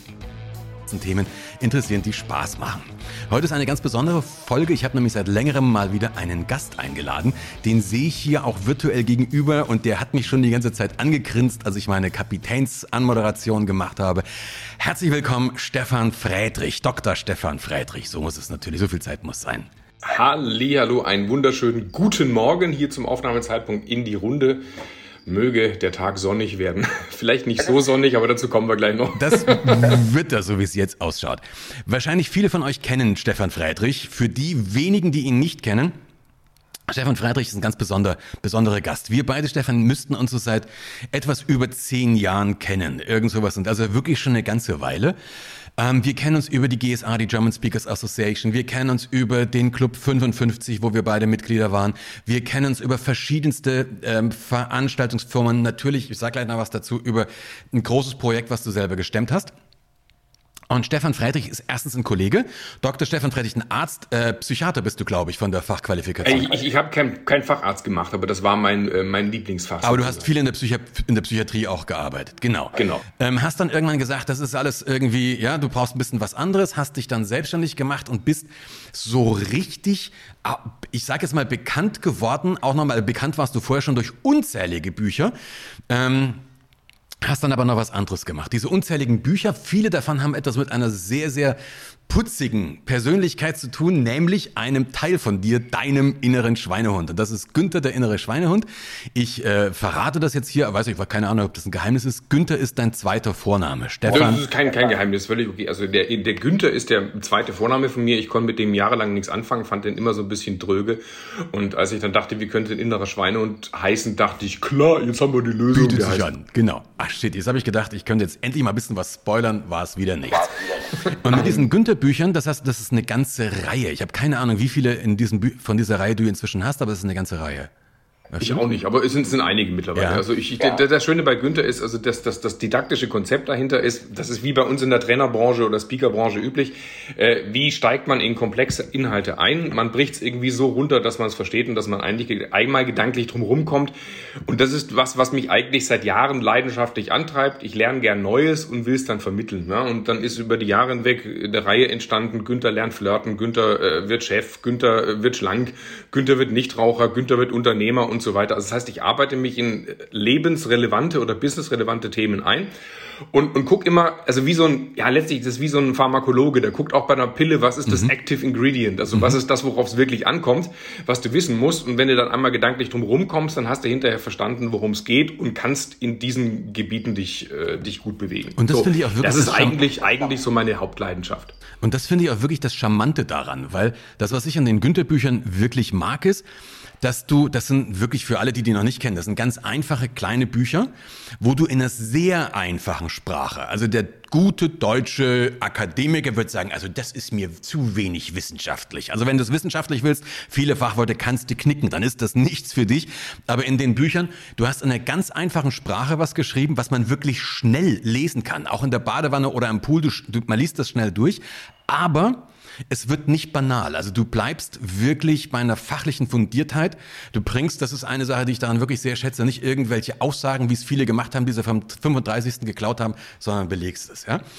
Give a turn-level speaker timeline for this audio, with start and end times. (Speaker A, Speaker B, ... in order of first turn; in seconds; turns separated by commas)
Speaker A: 0.9-14.2, Speaker A: 14.8-19.7, Speaker B: 20.0-24.6, Speaker B: 25.3-30.0, Speaker A: 29.2-36.0, Speaker A: 36.9-45.2, Speaker A: 45.8-59.5, Speaker A: 60.7-66.6, Speaker B: 66.2-70.3, Speaker A: 69.8-85.3, Speaker B: 72.8-73.0, Speaker A: 85.9-86.4, Speaker A: 87.2-91.6, Speaker A: 92.1-104.4, Speaker B: 104.1-111.0, Speaker B: 111.5-116.3, Speaker A: 115.7-127.7, Speaker B: 121.0-121.6, Speaker A: 128.3-128.7, Speaker B: 128.4-143.9, Speaker A: 130.0-130.2, Speaker B: 144.4-162.7, Speaker B: 163.3-181.6, Speaker A: 178.6-179.8, Speaker A: 181.8-186.4, Speaker A: 187.0-190.9, Speaker A: 191.4-224.4